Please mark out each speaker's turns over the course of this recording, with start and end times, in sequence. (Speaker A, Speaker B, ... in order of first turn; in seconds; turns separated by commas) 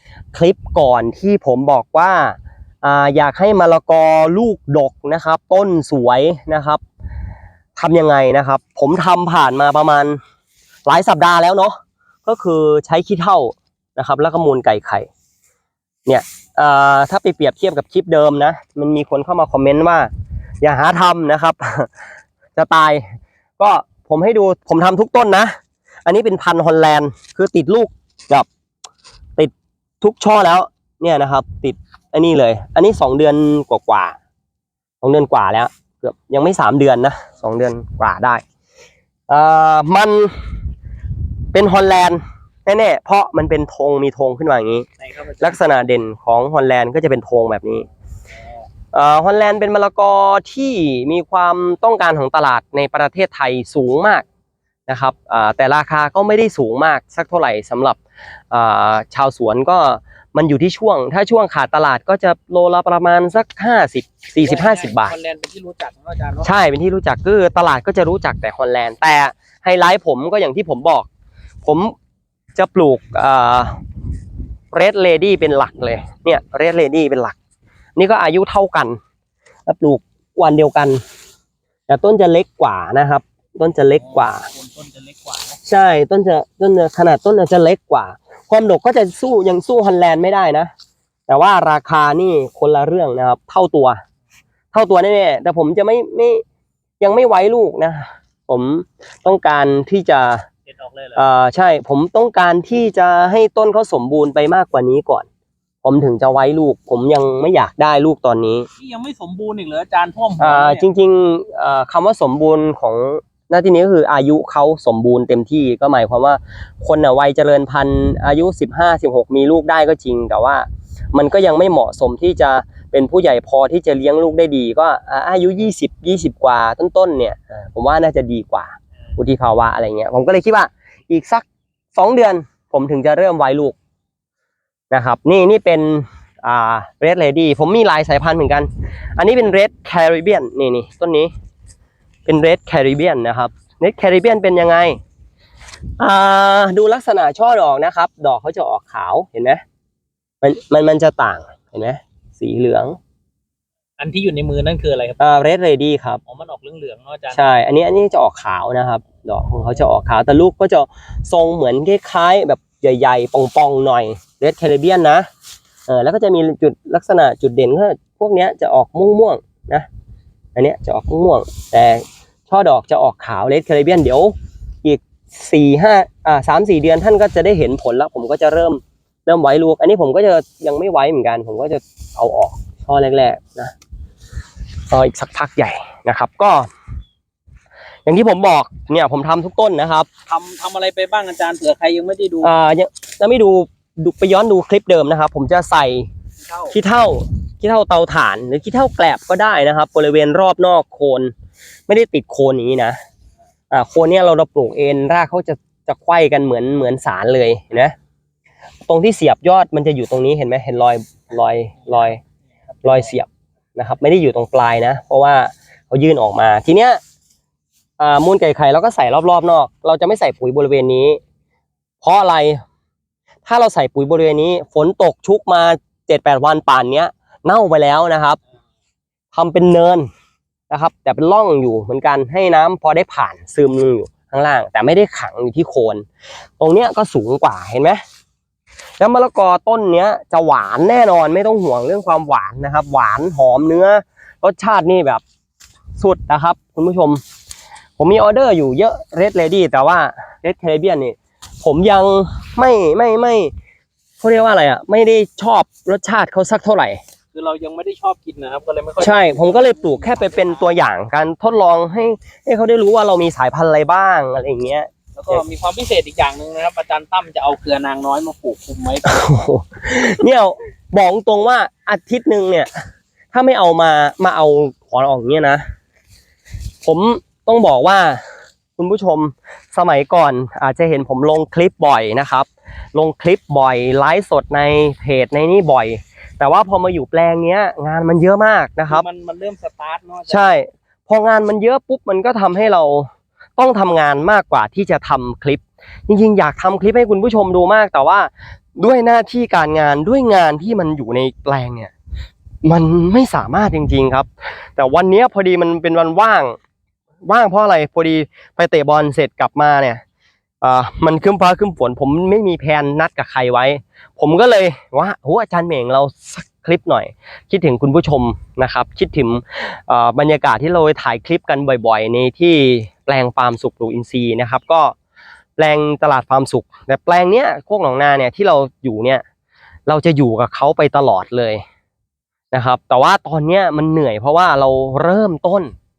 Speaker A: 0.3-6.8, Speaker A: 7.8-10.2, Speaker A: 10.9-15.1, Speaker A: 16.1-20.1, Speaker A: 20.6-21.9, Speaker A: 22.6-25.5, Speaker A: 26.1-28.5, Speaker A: 29.4-34.2, Speaker A: 35.0-38.4, Speaker A: 39.3-40.4, Speaker A: 41.5-44.9, Speaker B: 45.1-45.5, Speaker A: 45.4-47.9, Speaker A: 48.9-54.2, Speaker A: 54.9-58.0, Speaker A: 58.5-65.1, Speaker B: 64.4-66.5, Speaker A: 66.4-71.1, Speaker A: 71.7-71.9, Speaker A: 72.6-73.8, Speaker A: 74.7-77.4, Speaker A: 78.0-79.0, Speaker A: 79.7-81.0, Speaker A: 81.9-84.5, Speaker B: 84.0-85.6, Speaker A: 85.6-90.7, Speaker A: 91.3-94.0, Speaker A: 94.7-96.4, Speaker A: 97.0-100.5, Speaker B: 100.8-101.2, Speaker A: 101.2-105.3, Speaker A: 105.8-108.7, Speaker B: 108.8-110.9, Speaker A: 110.4-133.8, Speaker A: 134.9-141.3, Speaker A: 142.3-145.0, Speaker A: 146.0-149.6, Speaker A: 150.4-153.0, Speaker B: 154.0-155.2, Speaker A: 155.2-156.2, Speaker B: 156.3-157.4, Speaker A: 157.3-165.3, Speaker A: 165.9-169.9, Speaker A: 170.6-183.7, Speaker A: 184.9-186.7, Speaker A: 188.1-190.1, Speaker B: 190.3-192.5, Speaker A: 192.4-196.1, Speaker B: 196.4-196.8, Speaker A: 196.7-201.3, Speaker A: 201.9-203.0, Speaker A: 203.7-207.9, Speaker A: 208.9-212.2, Speaker A: 212.8-217.0, Speaker A: 218.0-221.2, Speaker A: 222.0-222.6, Speaker A: 223.4-228.4, Speaker A: 229.3-230.1, Speaker A: 230.7-236.1, Speaker A: 236.6-238.0, Speaker A: 239.0-245.2, Speaker A: 246.0-247.2, Speaker A: 248.0-253.5, Speaker A: 254.2-257.0, Speaker B: 257.3-260.6, Speaker A: 259.0-265.4, Speaker B: 265.2-269.2, Speaker A: 269.1-272.7, Speaker A: 273.3-275.6, Speaker A: 276.8-278.2, Speaker A: 278.8-289.1, Speaker B: 288.9-290.5, Speaker A: 290.3-301.9, Speaker A: 302.6-306.6, Speaker A: 307.3-310.0, Speaker A: 310.6-324.9, Speaker A: 325.6-329.2, Speaker A: 329.9-331.6, Speaker A: 332.5-335.7